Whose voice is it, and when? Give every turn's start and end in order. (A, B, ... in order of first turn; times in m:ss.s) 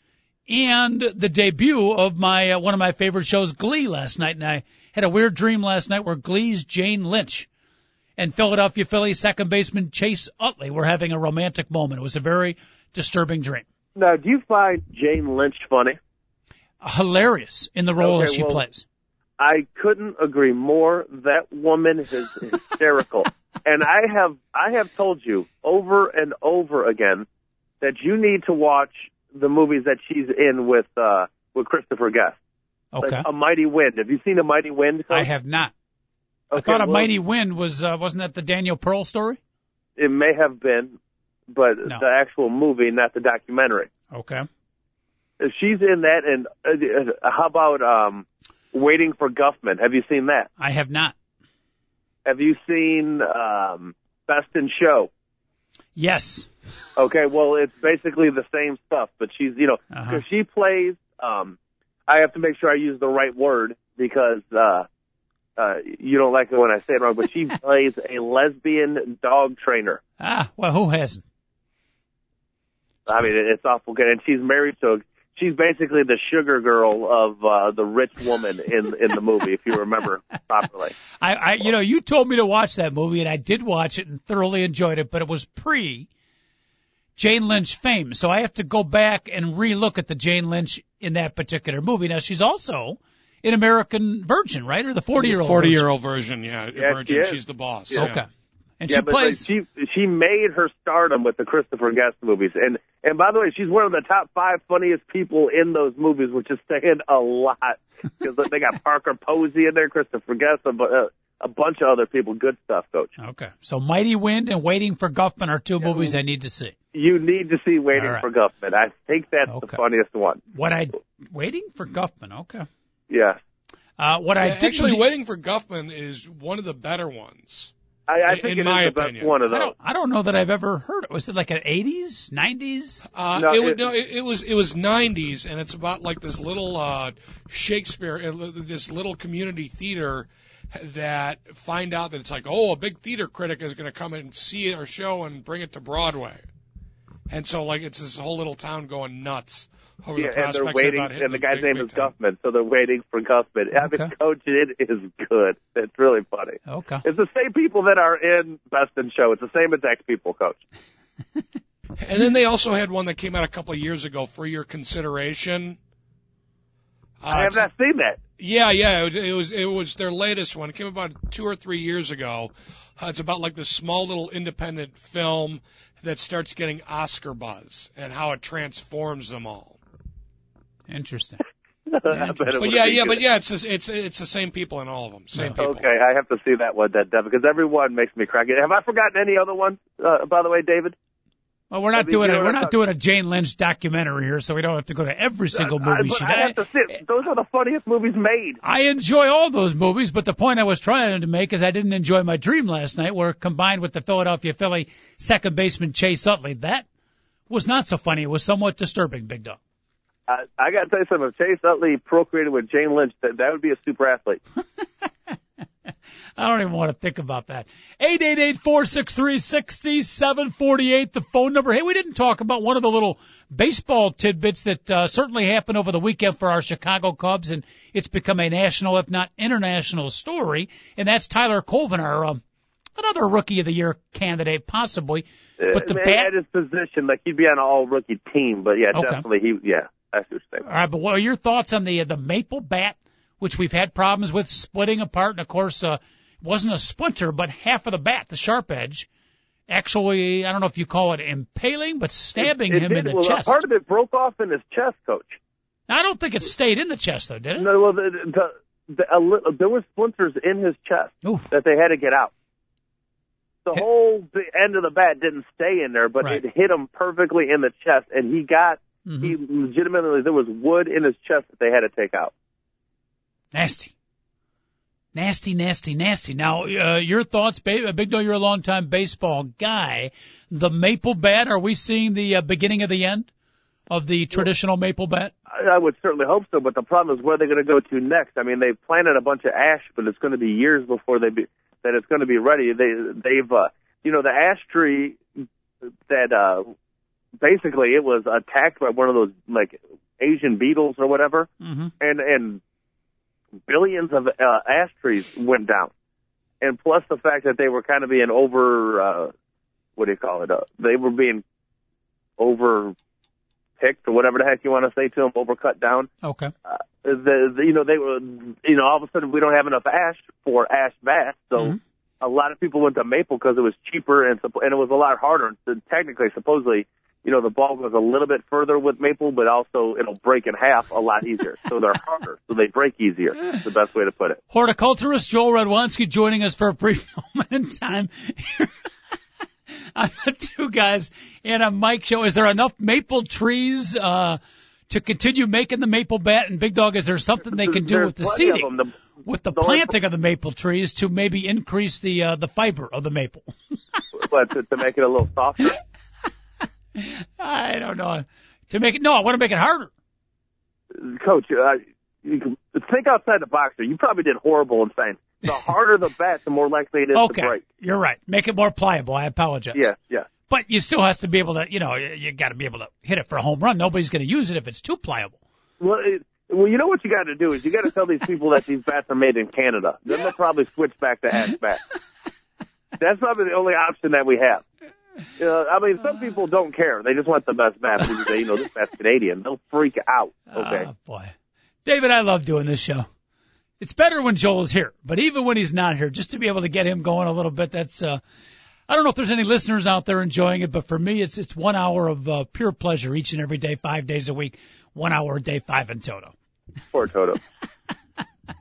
0:00.5-0:07.5 A
0:08.2-0:13.6 A
0:14.0-0:16.0 B
0:16.8-0:18.8 A
0:18.0-0:18.6 B
0:19.4-0:27.3 B
0:27.8-0:32.4 B
0:32.9-0:33.3 A
0:33.0-0:35.3 B
0:35.1-0:35.7 A
0:36.5-0:37.1 B
0:36.5-0:39.4 A
0:40.0-0:41.0 B
0:41.5-0:43.9 B
0:44.1-0:44.5 A
0:45.4-0:50.5 B
0:50.6-0:51.2 A
0:52.2-0:55.1 B
0:56.0-0:56.5 A
0:57.0-1:04.9 B
0:59.9-1:00.2 A
1:05.6-1:10.0 B
1:10.2-1:11.2 A
1:13.1-1:21.0 B
1:21.2-1:26.1 A
1:27.2-1:35.8 A
1:35.2-1:38.2 C
1:36.8-1:38.1 B
1:38.0-1:38.3 A
1:38.8-1:39.4 A
1:38.9-1:53.1 B
1:53.2-1:56.8 A
1:55.8-1:56.1 B
1:56.9-2:00.4 B
1:58.0-1:58.2 A
1:59.5-1:59.8 A
2:00.5-2:02.7 A
2:03.1-2:03.4 B
2:04.0-2:05.0 A
2:04.4-2:07.7 C
2:08.1-2:09.7 B
2:08.2-2:09.4 C
2:09.5-2:13.0 A
2:13.2-2:26.4 C
2:13.4-2:13.9 B
2:27.3-2:32.1 C
2:30.2-2:40.6 B
2:33.8-2:34.1 A
2:36.7-2:37.0 A
2:42.0-2:45.8 C
2:47.2-2:47.7 C
2:47.3-2:48.2 B
2:48.4-2:59.8 C
3:00.9-3:01.4 A
3:01.9-3:03.2 B
3:02.1-3:02.5 A
3:02.6-3:05.8 C
3:05.4-3:05.6 A
3:05.6-3:11.0 B
3:11.7-3:16.6 A
3:12.0-3:12.7 B
3:15.6-3:18.6 B
3:18.6-3:26.9 A
3:27.5-3:29.6 A
3:30.3-3:34.4 B
3:36.4-3:52.4 A
3:53.0-3:56.3 A
3:55.6-4:00.6 B
3:58.9-3:59.2 A
4:00.6-4:09.1 A
4:09.7-4:13.6 A
4:12.4-4:15.4 B
4:15.9-4:17.7 A
4:17.6-4:22.3 B
4:21.2-4:21.5 A
4:23.7-4:32.3 B
4:29.1-4:29.3 A
4:33.5-4:33.9 A
4:35.2-4:43.3 A
4:43.9-4:45.3 A
4:45.5-4:55.2 B
4:56.1-4:56.7 B
4:57.4-5:02.6 B
5:01.6-5:01.9 A
5:03.7-5:05.9 B
5:06.6-5:09.3 B
5:10.0-5:11.4 B
5:12.4-5:13.0 B
5:13.8-5:16.1 B
5:16.2-5:16.5 A
5:16.7-5:34.4 B
5:34.5-5:38.7 A
5:40.0-5:48.7 A
5:47.6-5:48.9 B
5:49.2-5:53.5 A
5:49.6-5:49.9 B
5:54.1-5:55.8 B
5:57.0-5:59.9 A
6:00.9-6:07.6 B
6:07.2-6:09.9 A
6:09.8-6:10.3 B
6:10.5-6:15.4 A
6:15.8-6:21.8 B
6:23.0-6:24.6 B
6:25.4-6:30.9 B
6:30.5-6:31.3 A
6:31.8-6:33.1 A
6:33.8-6:38.2 A
6:38.9-6:46.3 A
6:46.9-6:47.4 B